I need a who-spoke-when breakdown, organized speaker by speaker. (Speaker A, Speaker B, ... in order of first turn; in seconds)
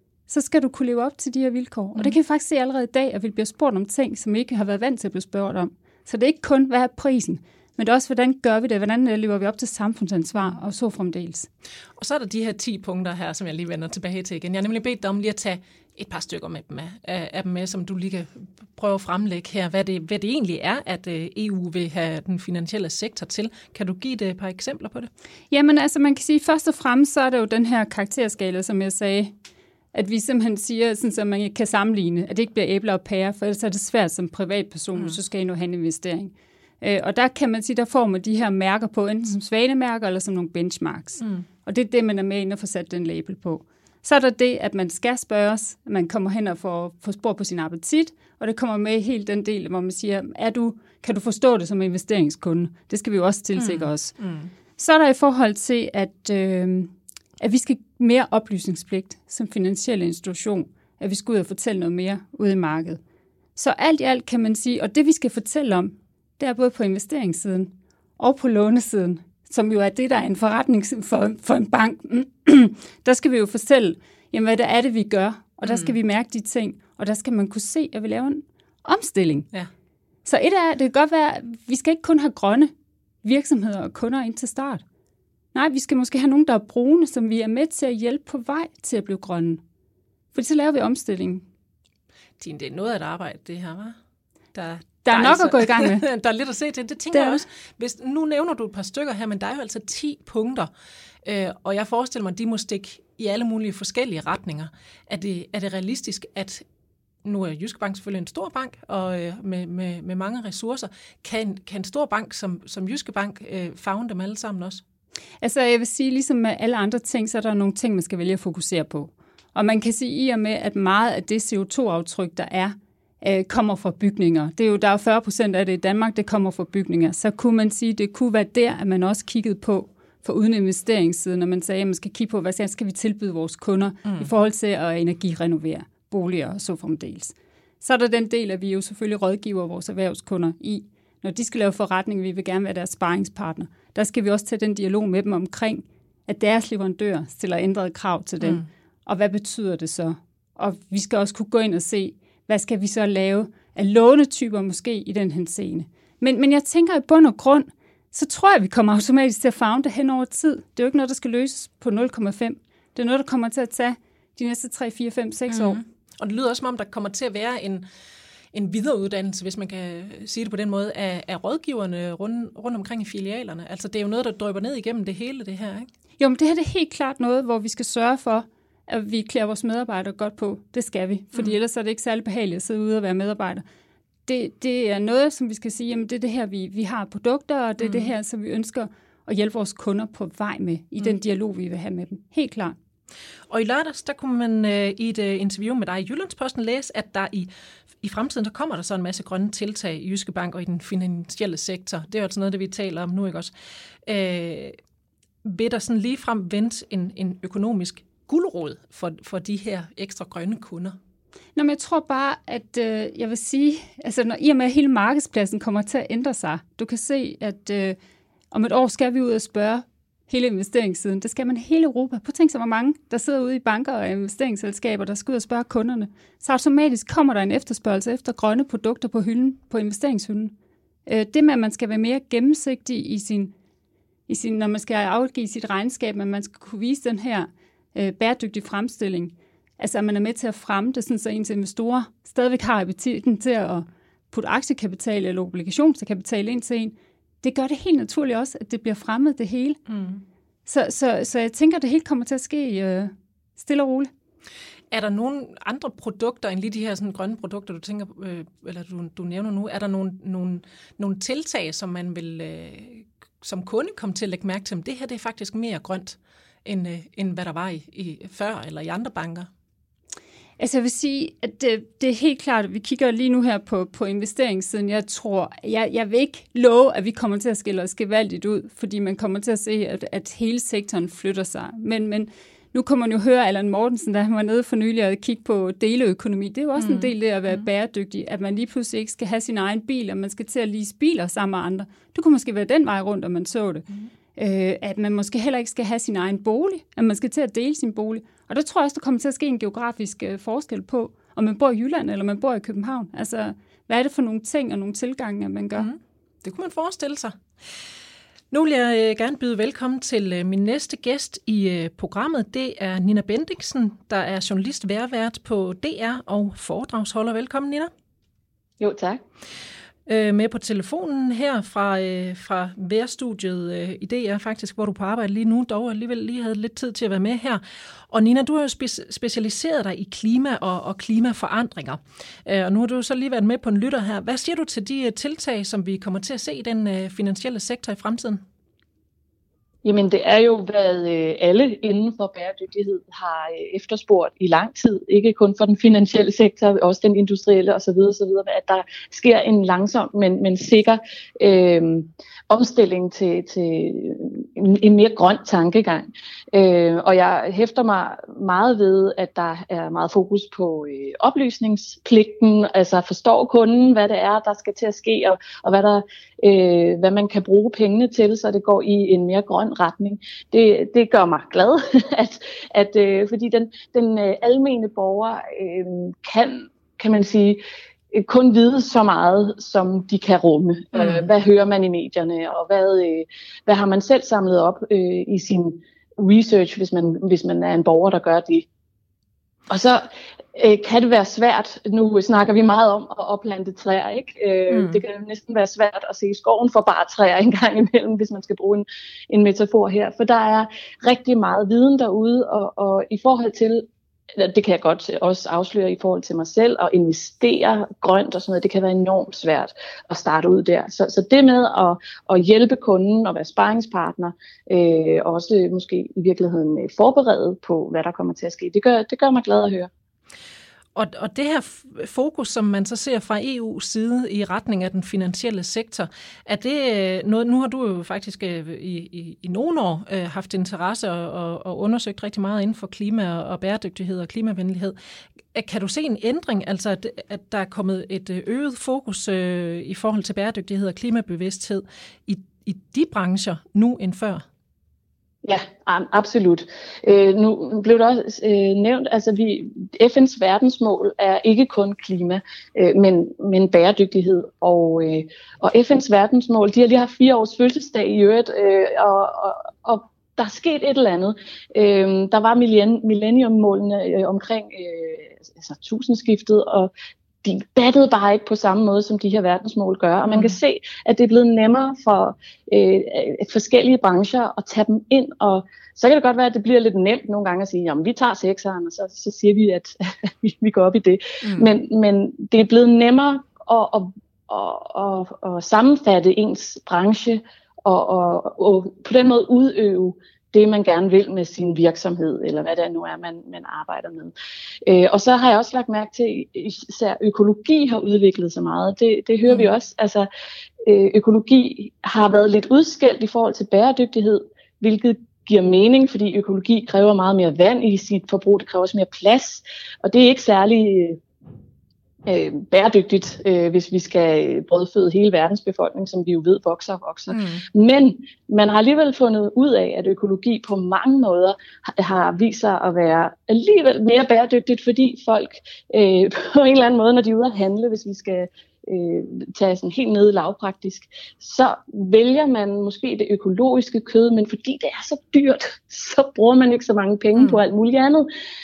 Speaker A: 0.3-11.5, 25.5-29.3, 29.9-54.1, 54.8-63.0, 63.5-79.5, 80.2-82.7, 83.2-84.8, 85.5-89.6, 90.3-91.4, 95.0-96.0, 97.1-97.4, 115.4-165.8, 176.2-183.6, 184.3-192.8, 211.6-218.0, 218.5-230.5, 231.1-233.5, 234.3-249.8, 250.7-254.1, 270.6-305.9
Speaker B: 12.0-25.1, 41.2-41.5, 53.5-54.5, 75.7-75.9, 92.4-94.0, 94.5-100.7, 101.2-106.6, 107.2-114.8, 148.4-148.7, 165.5-167.8, 168.5-175.9, 187.8-188.1, 193.5-197.5, 198.0-203.5, 204.0-204.8, 205.4-211.0, 249.9-250.2, 254.9-269.5, 286.8-287.6, 305.8-307.4, 308.5-317.9, 320.1-338.4, 380.9-381.2, 394.7-395.0, 420.9-434.9, 435.5-444.4, 470.3-470.6, 481.4-481.7, 517.3-517.6, 537.4-537.6
Speaker C: 318.8-319.2, 339.8-377.6, 378.1-388.7, 389.7-419.9, 445.4-466.9, 467.4-494.3, 494.8-500.3, 500.8-511.2, 512.2-538.3